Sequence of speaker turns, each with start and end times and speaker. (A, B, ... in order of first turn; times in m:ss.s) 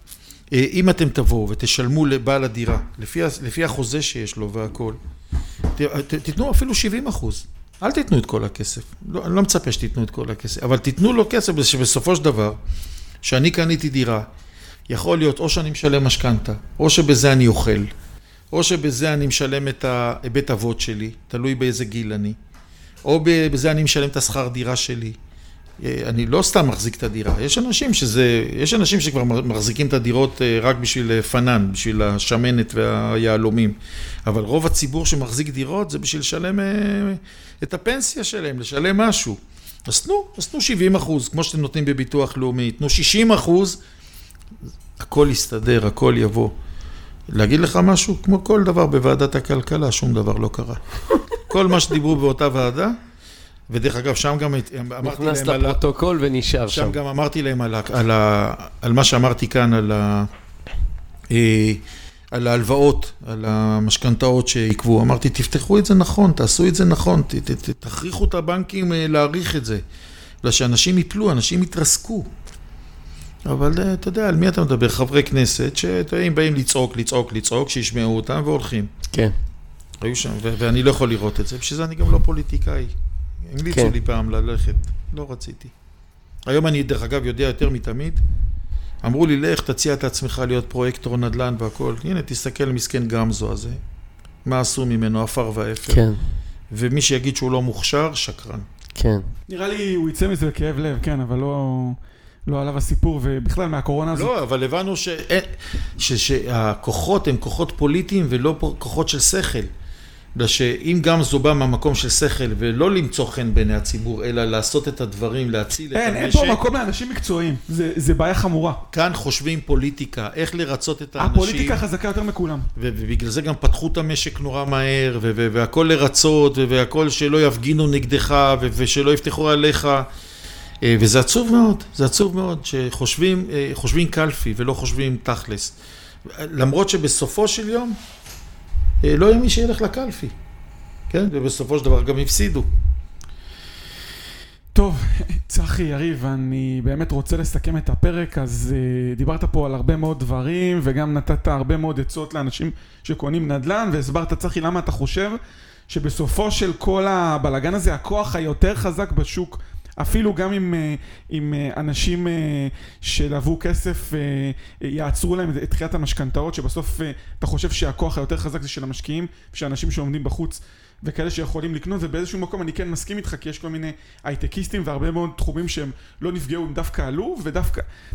0:00.5-0:05.0 A
0:05.7-0:12.6 A
0:13.2-0:14.3 A
0:14.9-0:17.9 A
0:18.5-0:22.4 A
0:23.0-0:25.2 A
0:25.8-0:43.8 A
0:45.0-0:46.5 A
0:47.3-0:50.8 A
0:51.4-0:53.0 A
0:53.7-0:55.8 A
0:55.0-0:57.0 B
0:56.7-1:00.3 A
1:01.3-1:01.8 A
1:02.3-1:09.8 A
1:10.4-1:12.3 A
1:13.4-1:18.9 A
1:20.0-1:22.9 A
1:23.4-1:25.7 A
1:26.5-1:28.2 A
1:29.0-1:33.8 A
1:34.4-1:36.1 A
1:35.9-1:36.2 B
1:36.7-1:38.7 A
1:39.0-1:39.3 B
1:39.5-1:44.3 C
1:44.1-1:49.7 A
1:50.4-1:56.6 A
1:55.9-1:58.8 C
1:58.9-2:01.8 A
2:01.2-2:02.7 C
2:02.8-2:10.1 A
2:10.8-2:18.0 A
2:19.0-2:20.3 A
2:21.1-2:22.7 A
2:24.8-2:57.8 C